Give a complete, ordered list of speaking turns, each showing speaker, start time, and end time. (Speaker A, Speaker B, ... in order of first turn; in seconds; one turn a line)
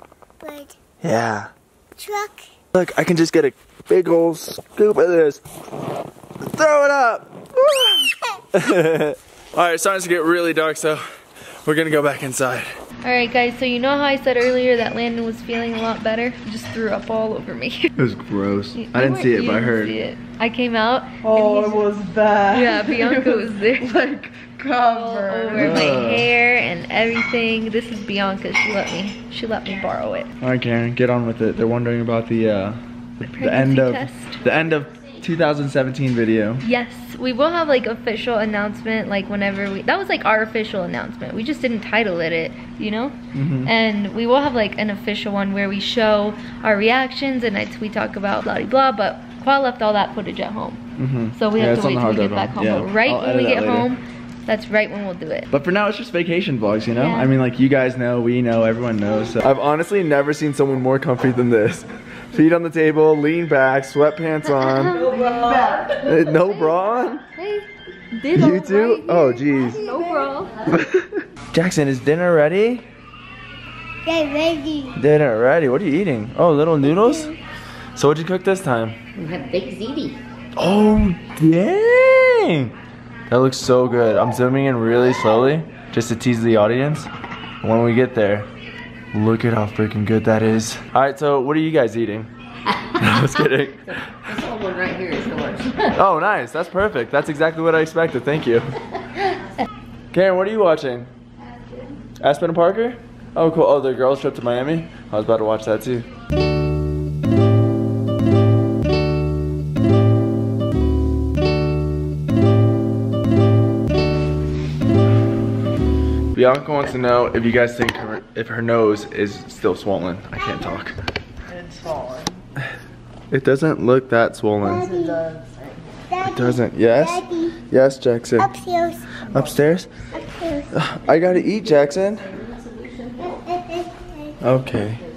Speaker A: 0.4-0.8
Speaker B: 1.0-1.5
Speaker A: 2.0-2.5
Speaker B: 2.7-5.4
Speaker B: 6.4-11.1
Speaker B: 11.7-12.7
Speaker C: 13.0-17.9
Speaker B: 18.0-20.0
Speaker C: 18.8-21.9
Speaker D: 21.2-25.8
Speaker C: 22.5-23.9
Speaker C: 24.8-30.3
Speaker B: 25.5-26.3
Speaker B: 30.4-32.8
Speaker C: 33.3-34.4
Speaker B: 33.4-36.6
Speaker C: 36.6-50.8
Speaker B: 43.3-43.7
Speaker B: 51.0-53.9
Speaker C: 51.4-55.5
Speaker B: 55.5-65.0
Speaker C: 56.9-57.4
Speaker C: 64.5-70.5
Speaker D: 64.9-66.0
Speaker B: 66.0-67.2
Speaker B: 68.3-69.8
Speaker D: 69.8-70.3
Speaker B: 70.7-72.8
Speaker A: 74.0-75.0
Speaker B: 75.0-77.3
Speaker A: 76.8-77.3
Speaker B: 78.0-79.0
Speaker E: 79.2-80.2
Speaker B: 80.6-82.8
Speaker B: 83.3-87.1
Speaker B: 87.6-88.5
Speaker B: 89.1-92.3
Speaker B: 93.0-94.1
Speaker E: 94.3-96.0
Speaker B: 95.9-98.8
Speaker B: 100.1-101.1
Speaker B: 102.2-106.1
Speaker B: 116.3-121.0
Speaker D: 121.5-122.4
Speaker B: 123.3-124.9
Speaker A: 124.6-125.2
Speaker D: 124.7-125.8
Speaker A: 126.1-127.6
Speaker B: 126.2-128.5
Speaker A: 128.4-129.2
Speaker B: 129.3-129.9
Speaker A: 130.1-130.7
Speaker B: 130.7-132.3
Speaker A: 133.2-134.4
Speaker B: 134.4-135.0